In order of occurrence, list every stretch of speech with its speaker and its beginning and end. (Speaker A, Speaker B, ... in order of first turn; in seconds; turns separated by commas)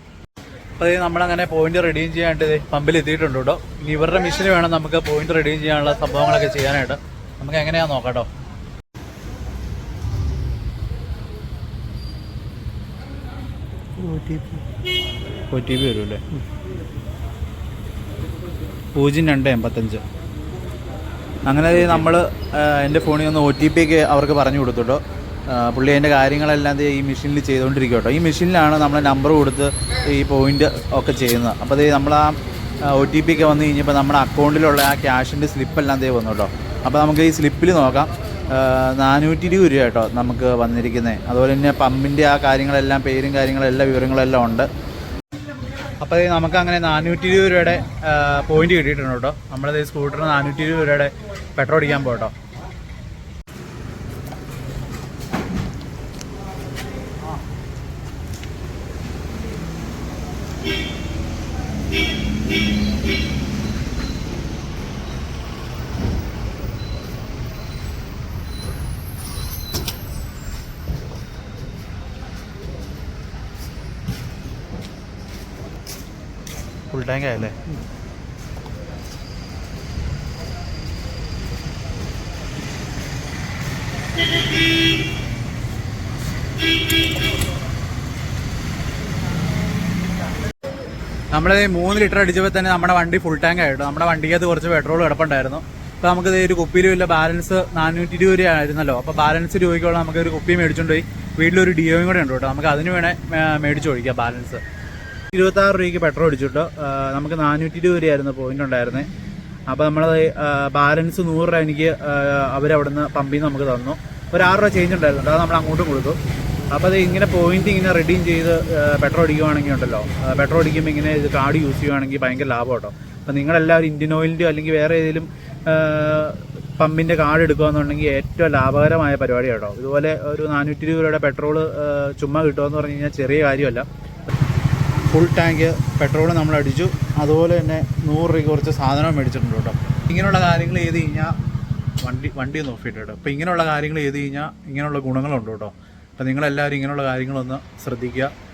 Speaker A: 0.8-8.3, Speaker A: 14.0-14.6, Speaker A: 15.5-16.4, Speaker A: 18.9-20.0, Speaker A: 21.4-44.7, Speaker A: 46.0-52.3, Speaker A: 76.9-77.6, Speaker A: 91.3-104.6, Speaker A: 105.3-109.1, Speaker A: 109.7-116.2, Speaker A: 116.7-133.9, Speaker A: 135.1-141.3, Speaker A: 142.0-148.3